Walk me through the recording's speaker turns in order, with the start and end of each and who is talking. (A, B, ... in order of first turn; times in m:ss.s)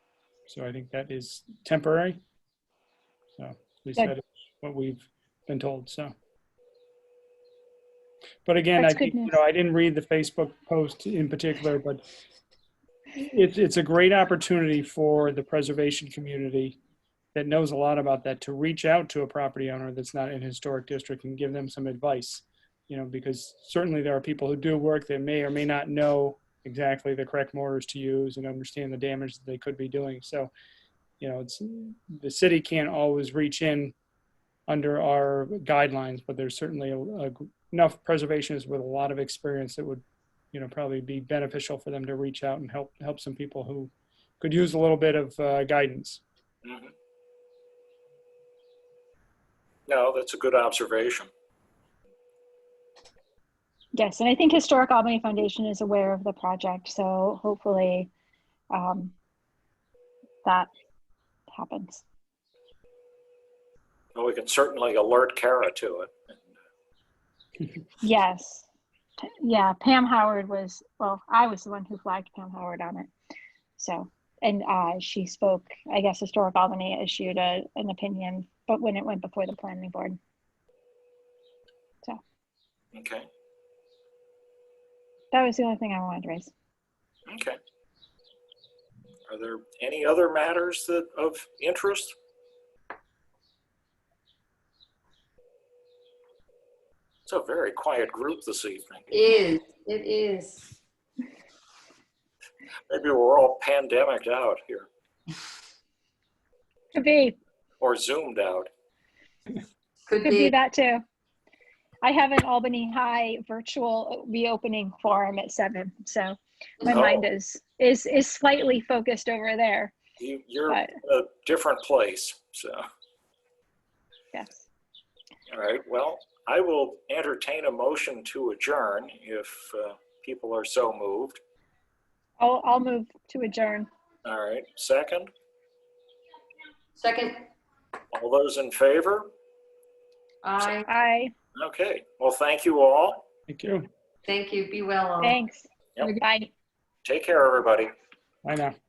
0:00.5-0:02.2 A
0:03.4-0:06.1 A
0:08.4-0:12.0 A
0:08.8-0:09.4 B
0:13.2-0:16.8 A
0:17.3-0:30.5 A
0:31.2-0:33.9 A
0:34.7-0:46.2 A
0:46.6-0:46.9 C
0:49.9-0:51.3 C
0:54.0-0:58.1 B
0:58.7-0:59.1 B
1:00.4-1:00.7 B
1:01.5-1:02.0 B
1:04.2-1:06.4 C
1:08.0-1:08.7 B
1:09.2-1:13.1 B
1:13.8-1:20.2 B
1:22.9-1:23.3 C
1:25.3-1:26.5 B
1:27.3-1:27.6 C
1:29.3-1:32.2 C
1:37.3-1:39.1 C
1:39.1-1:40.8 D
1:42.9-1:44.9 C
1:46.9-1:47.4 B
1:47.8-1:48.7 C
1:50.1-1:50.6 D
1:50.2-1:51.0 B
1:52.0-2:00.0 B
1:56.9-1:57.2 C
2:00.2-2:02.8 C
2:04.3-2:04.7 B
2:05.5-2:11.4 C
2:12.4-2:13.9 B
2:14.2-2:15.3 C
2:17.0-2:17.4 D
2:18.1-2:19.3 C
2:20.4-2:20.9 D
2:20.9-2:21.3 B
2:21.6-2:23.3 C
2:23.5-2:23.9 A
2:24.3-2:25.4 D
2:25.2-2:26.5 B
2:27.0-2:27.9 C
2:28.4-2:28.8 A